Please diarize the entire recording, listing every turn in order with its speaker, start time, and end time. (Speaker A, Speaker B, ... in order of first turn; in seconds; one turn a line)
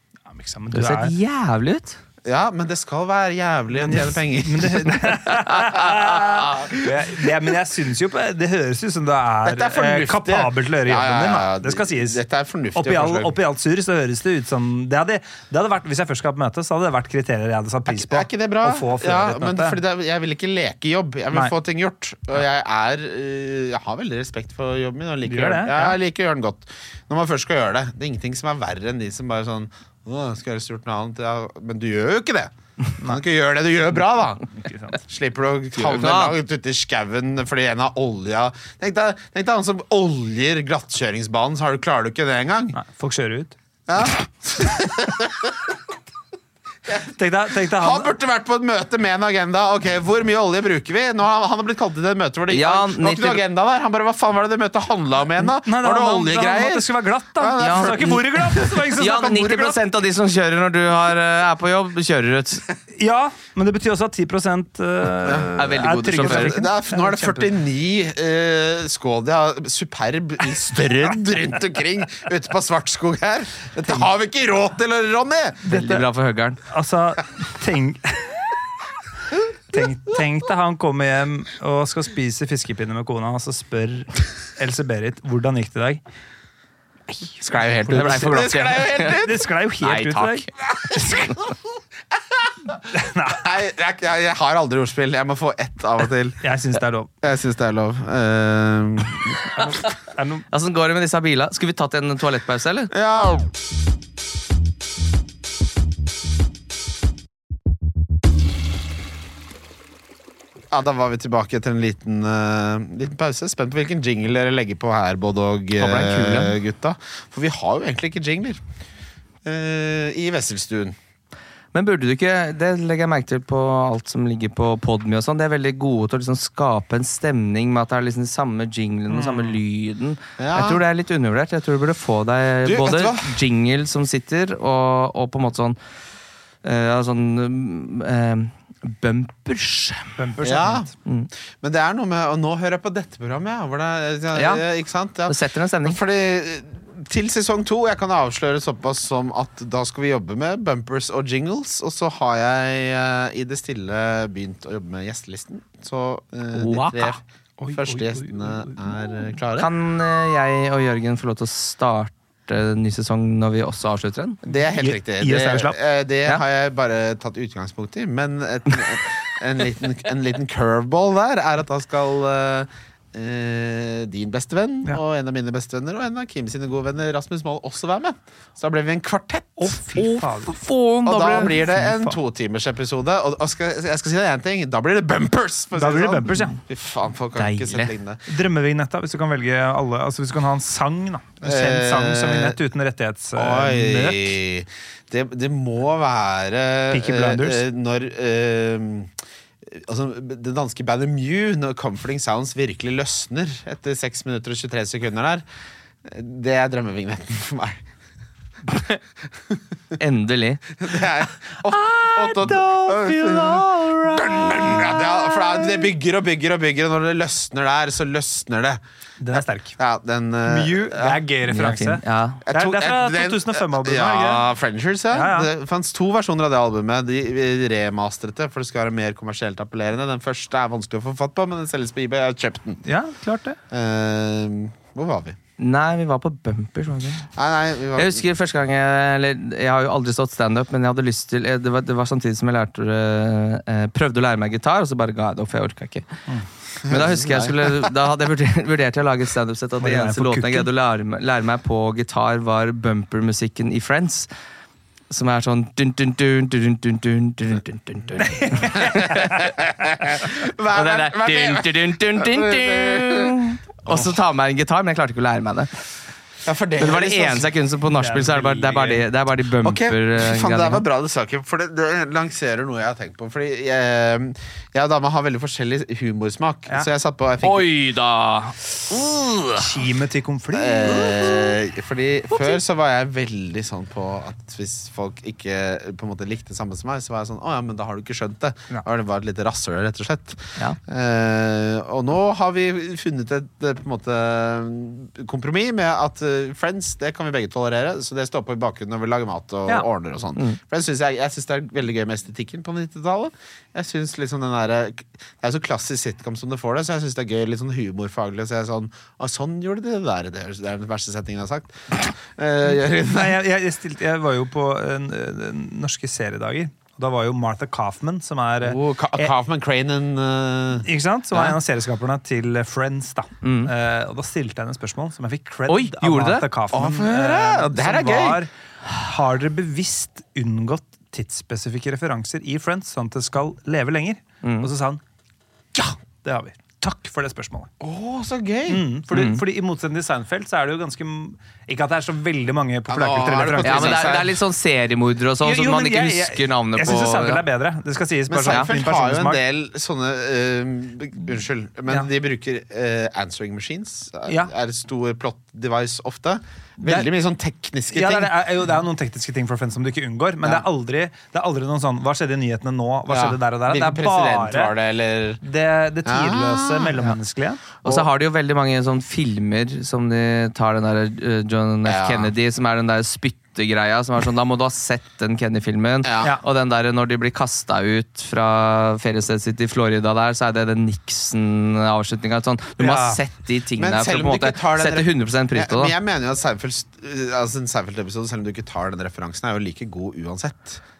Speaker A: 0.3-1.1
Speaker B: 0.7-2.0
Speaker C: 2.2-5.0
Speaker A: 3.7-12.2
Speaker C: 5.9-6.8
Speaker C: 9.4-13.3
Speaker A: 12.7-19.8
Speaker C: 17.9-34.4
Speaker A: 25.2-25.9
Speaker A: 34.6-35.0
Speaker C: 35.0-42.8
Speaker B: 35.8-36.4
Speaker A: 42.7-43.5
Speaker C: 43.9-45.8
Speaker C: 46.9-59.8
Speaker A: 47.0-48.1
Speaker B: 52.5-53.4
Speaker A: 55.4-59.4
Speaker B: 57.6-58.2
Speaker B: 59.0-62.6
Speaker A: 62.9-67.5
Speaker C: 65.2-65.5
Speaker B: 65.6-66.6
Speaker C: 66.1-76.0
Speaker B: 75.7-76.6
Speaker A: 76.7-78.3
Speaker A: 79.7-86.0
Speaker C: 87.4-89.5
Speaker B: 87.6-89.1
Speaker A: 87.9-88.5
Speaker A: 89.0-90.5
Speaker B: 89.8-90.5
Speaker C: 90.7-91.5
Speaker A: 92.9-93.4
Speaker C: 93.3-96.4
Speaker A: 96.4-97.1
Speaker C: 97.2-99.7
Speaker A: 100.1-100.5
Speaker B: 100.5-102.9
Speaker C: 102.9-103.5
Speaker C: 110.7-118.6
Speaker B: 115.8-116.5
Speaker C: 119.4-121.0
Speaker B: 121.7-135.8
Speaker A: 129.1-129.6
Speaker C: 130.4-130.8
Speaker C: 132.6-133.3
Speaker B: 136.6-140.2
Speaker A: 140.2-140.9
Speaker C: 140.4-140.9
Speaker C: 141.6-159.7
Speaker B: 144.3-144.6
Speaker B: 145.3-146.0
Speaker B: 156.5-157.1
Speaker A: 157.6-158.9
Speaker B: 159.6-164.4
Speaker C: 164.4-179.8
Speaker A: 164.5-165.8
Speaker A: 179.6-180.6
Speaker B: 179.9-181.7
Speaker C: 181.0-188.2
Speaker A: 181.4-182.1
Speaker A: 185.8-186.6
Speaker B: 187.3-187.9
Speaker A: 188.2-194.3
Speaker C: 191.4-192.6
Speaker C: 193.3-199.1
Speaker A: 196.9-197.6
Speaker C: 199.6-205.4
Speaker C: 206.0-207.8
Speaker C: 209.5-210.0
Speaker B: 210.0-210.7
Speaker C: 210.8-218.8
Speaker B: 211.7-215.6
Speaker A: 219.2-219.7
Speaker C: 219.3-221.2
Speaker A: 220.4-224.4
Speaker B: 221.4-222.4
Speaker C: 222.4-232.8
Speaker A: 225.1-225.5
Speaker A: 232.8-233.6
Speaker C: 233.7-235.4
Speaker B: 235.6-237.3
Speaker C: 237.3-238.2
Speaker B: 237.9-246.1
Speaker C: 246.8-247.6
Speaker B: 246.9-254.3
Speaker A: 249.8-250.7
Speaker B: 255.1-259.1
Speaker A: 258.2-259.6
Speaker C: 258.8-264.1
Speaker B: 260.7-265.7
Speaker C: 266.4-267.5
Speaker B: 266.8-270.8
Speaker A: 268.0-269.0
Speaker C: 269.6-277.7
Speaker B: 277.4-279.6
Speaker A: 279.6-281.2
Speaker C: 280.5-313.4
Speaker A: 313.0-319.3
Speaker C: 318.6-320.9
Speaker A: 320.8-335.0
Speaker B: 323.4-323.7
Speaker B: 325.7-326.4
Speaker C: 326.7-328.4
Speaker B: 334.4-334.7
Speaker A: 336.2-337.7
Speaker C: 337.8-338.9
Speaker A: 338.7-344.1
Speaker B: 339.1-339.4
Speaker C: 342.9-344.4
Speaker B: 343.6-347.4
Speaker A: 345.4-349.4
Speaker C: 348.3-358.4
Speaker A: 354.2-354.5
Speaker A: 356.8-357.1
Speaker A: 357.9-364.7
Speaker C: 363.1-365.4
Speaker A: 365.4-367.6
Speaker C: 366.0-366.9
Speaker B: 367.8-385.9
Speaker C: 371.9-372.3
Speaker C: 376.0-376.3
Speaker A: 382.8-383.2
Speaker C: 383.8-390.8